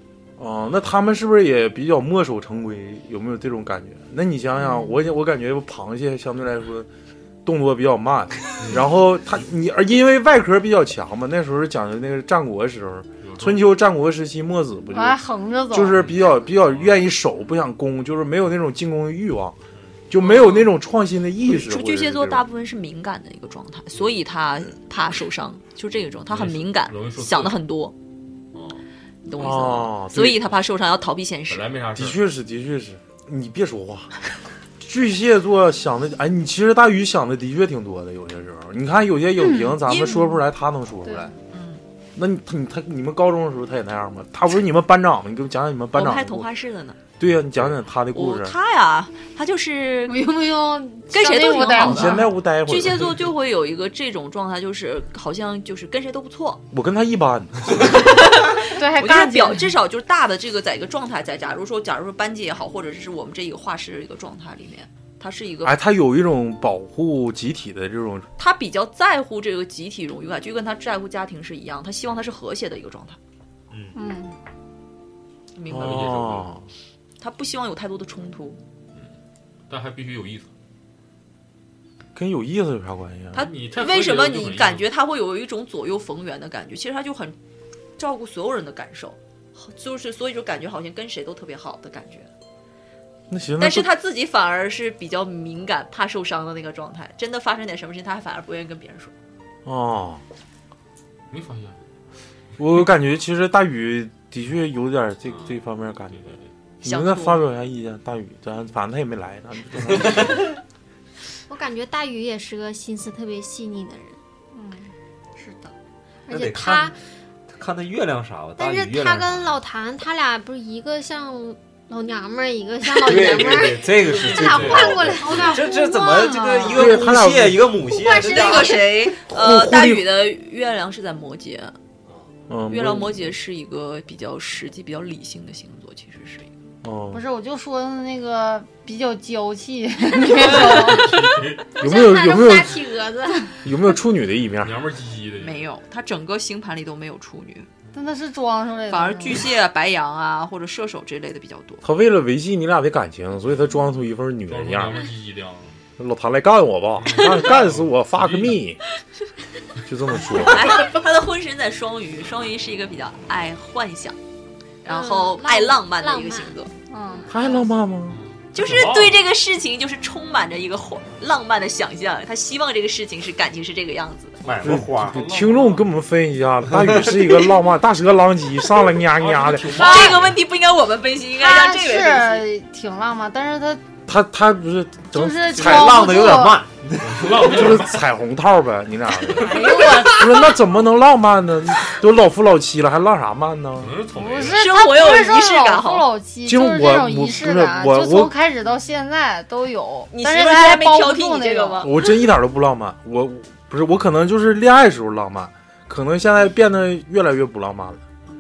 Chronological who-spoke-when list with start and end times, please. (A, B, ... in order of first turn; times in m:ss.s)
0:00.4-0:06.9 A
0:07.4-0:15.2 A
0:08.6-0:08.9 B
0:13.2-0:13.6 B
0:14.9-0:16.0 C
0:15.7-0:19.6 A
0:15.9-0:17.0 B
0:20.1-0:22.4 A
0:20.2-0:20.7 D
0:21.4-0:27.9 D
0:26.3-0:27.6 B
0:28.5-0:28.8 B
0:29.2-0:31.7 D
0:29.4-0:30.4 A
0:31.5-0:32.2 B
0:31.9-0:34.1 A
0:34.8-0:41.3 A
0:39.8-0:40.4 D
0:41.5-0:41.8 D
0:42.2-0:46.5 A
0:45.9-0:47.0 D
0:47.2-0:48.5 A
0:48.1-0:50.2 D
0:50.1-0:52.3 C
0:51.1-0:56.6 D
0:51.8-0:53.1 A
0:56.7-0:58.2 A
0:57.8-1:05.7 D
0:58.7-0:59.7 C
1:05.6-1:08.3 A
1:08.4-1:13.2 D
1:13.7-1:14.0 E
1:14.0-1:14.3 C
1:15.6-1:16.1 D
1:15.7-1:16.5 B
1:15.7-1:16.6 A
1:17.2-1:18.6 D
1:19.7-1:20.5 B
1:22.1-1:23.5 A
1:23.3-1:24.9 B
1:23.7-1:27.4 D
1:28.0-1:32.3 D
1:33.3-1:33.9 A
1:33.6-1:39.1 D
1:39.6-1:40.2 A
1:41.3-1:41.8 B
1:42.6-1:50.4 A
1:46.2-1:46.4 B
1:46.8-1:47.4 D
1:51.5-1:54.2 F
1:54.5-1:55.7 C
1:56.3-1:57.0 F
1:56.3-1:56.9 E
1:57.5-1:59.4 E
1:58.6-2:06.6 F
2:02.9-2:08.8 E
2:04.1-2:05.4 B
2:05.5-2:06.6 C
2:06.6-2:07.7 A
2:07.9-2:08.9 F
2:08.1-2:11.7 D
2:09.3-2:10.0 A
2:12.5-2:13.2 A
2:12.7-2:16.5 D
2:16.8-2:17.2 A
2:17.1-2:21.2 C
2:20.6-2:21.0 D
2:20.9-2:21.7 B
2:21.7-2:23.6 F
2:21.8-2:22.8 A
2:23.6-2:24.7 A
2:24.6-2:25.7 B
2:25.4-2:27.7 D
2:27.9-2:29.4 C
2:28.9-2:31.8 D
2:31.8-2:35.0 A
2:34.5-2:35.8 B
2:36.0-2:38.8 A
2:37.0-2:38.6 B
2:39.8-2:40.9 A
2:40.5-2:44.2 D
2:44.8-2:46.7 D
2:44.9-2:47.6 F
2:46.9-2:47.3 C
2:47.3-2:48.2 A
2:48.1-2:49.2 B
2:48.5-2:54.4 D
2:54.4-2:55.2 E
2:54.4-2:55.9 B
2:54.6-2:59.9 A
2:59.1-3:00.4 B
2:59.8-3:02.5 D
3:01.4-3:03.8 C
3:04.0-3:06.5 A
3:05.1-3:06.6 C
3:05.5-3:07.4 E
3:07.0-3:08.0 B
3:07.3-3:14.0 A
3:09.4-3:10.5 C
3:13.8-3:14.7 B
3:14.1-3:21.9 C
3:14.4-3:16.1 D
3:16.4-3:18.3 A
3:20.1-3:21.9 D
3:21.8-3:28.0 A